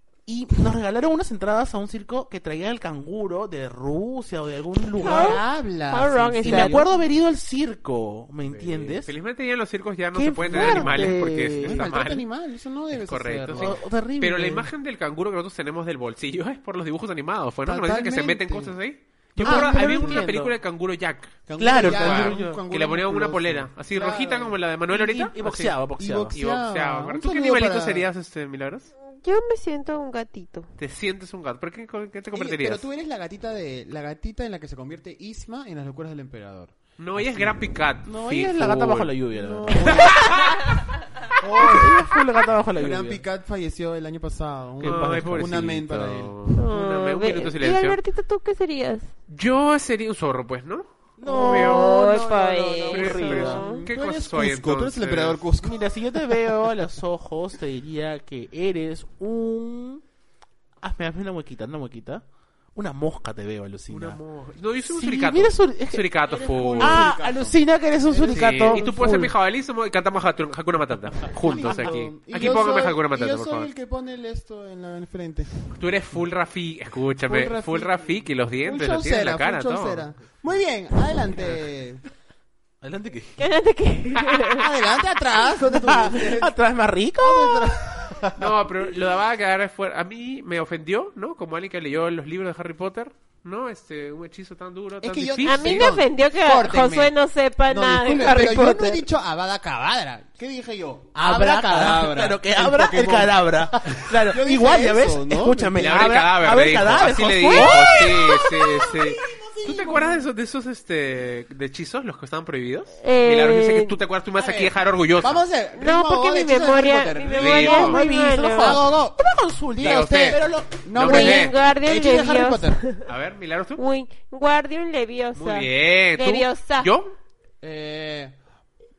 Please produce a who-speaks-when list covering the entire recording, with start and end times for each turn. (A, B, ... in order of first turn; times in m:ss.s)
0:00.3-0:05.4 A
0:05.0-0:07.0 B
0:05.0-0:06.8 C
0:06.4-0:09.1 A
0:08.4-0:12.2 D
0:10.2-0:11.9 A
0:10.5-0:13.8 B
0:13.0-0:25.8 D
0:13.6-0:14.7 A
0:17.6-0:18.8 B
0:19.4-0:20.3 B
0:19.4-0:20.5 A
0:21.5-0:24.6 B
0:21.6-0:22.4 A
0:24.9-0:26.4 A
0:26.0-0:28.1 B
0:26.3-0:28.9 D
0:29.1-0:30.7 C
0:30.8-0:32.8 D
0:32.3-0:37.6 B
0:37.0-0:39.2 D
0:38.1-0:40.6 A
0:39.3-0:40.4 B
0:39.7-0:40.4 D
0:41.4-0:42.1 B
0:41.6-0:43.2 A
0:42.7-0:46.4 B
0:44.8-0:45.8 A
0:44.8-0:48.0 D
0:46.6-0:49.1 C
0:49.3-0:52.0 D
0:51.2-0:53.7 A
0:51.3-0:53.8 C
0:52.9-0:55.4 D
0:53.6-0:55.8 B
0:55.6-1:00.0 A
1:00.8-1:02.2 A
1:02.8-1:04.2 A
1:03.9-1:07.1 D
1:04.9-1:09.3 A
1:06.3-1:08.9 B
1:08.3-1:13.7 D
1:11.4-1:15.5 B
1:11.6-1:11.9 A
1:15.8-1:20.1 D
1:17.3-1:18.1 B
1:18.6-1:22.0 B
1:21.3-1:21.6 A
1:22.8-1:23.4 A
1:23.4-1:24.6 C
1:24.5-1:26.5 B
1:25.6-1:28.1 A
1:27.2-1:28.6 B
1:28.4-1:35.9 D
1:35.0-1:37.1 B
1:35.4-1:39.0 C
1:37.7-1:46.1 B
1:41.2-1:49.0 A
1:45.8-1:55.4 D
1:47.6-1:50.2 B
1:53.0-1:54.0 C
1:54.4-2:02.8 B
1:55.8-1:58.8 C
1:57.4-1:58.0 D
1:57.7-2:00.8 A
1:59.8-2:00.4 D
2:00.9-2:01.6 D
2:01.0-2:03.0 C
2:03.1-2:03.8 D
2:03.8-2:06.9 C
2:05.4-2:07.1 D
2:07.6-2:08.4 B